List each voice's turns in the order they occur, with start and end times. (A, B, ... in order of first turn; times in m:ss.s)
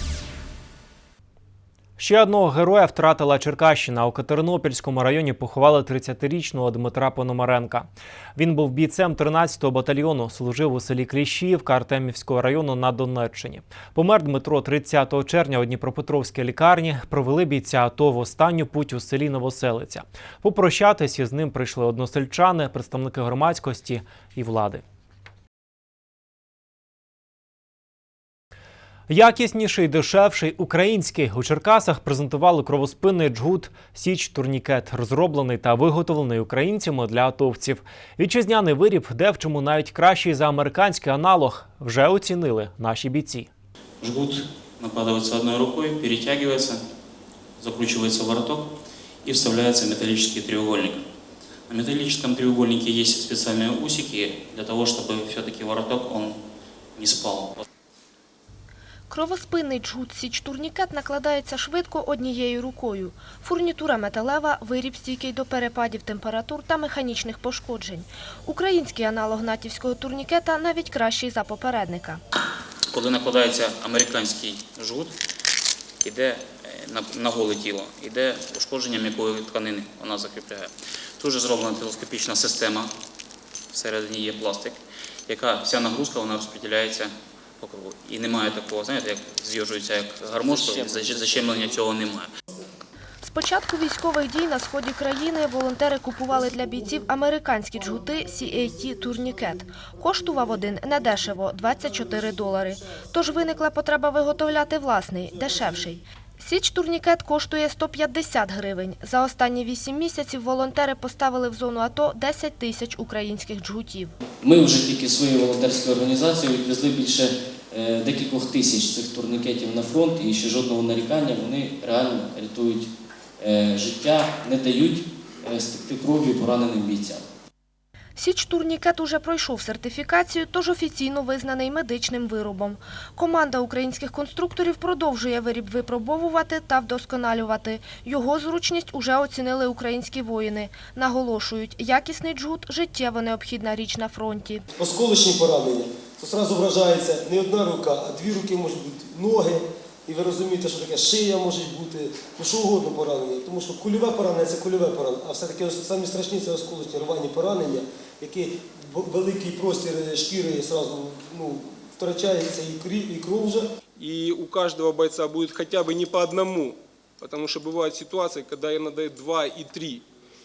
0:02.0-0:24.8 A
0:29.1-0:43.5 A
0:44.0-0:46.8 B
0:47.6-0:51.0 B
0:51.7-0:56.4 B
0:57.0-0:57.6 B
0:59.1-1:12.2 C
1:12.9-1:15.2 B
1:16.0-1:22.9 B
1:23.7-1:32.3 B
1:33.2-1:54.1 C
1:54.4-2:02.9 D
2:03.4-2:07.2 D
2:08.2-2:24.6 C
2:24.8-2:43.7 E
2:44.0-2:50.0 F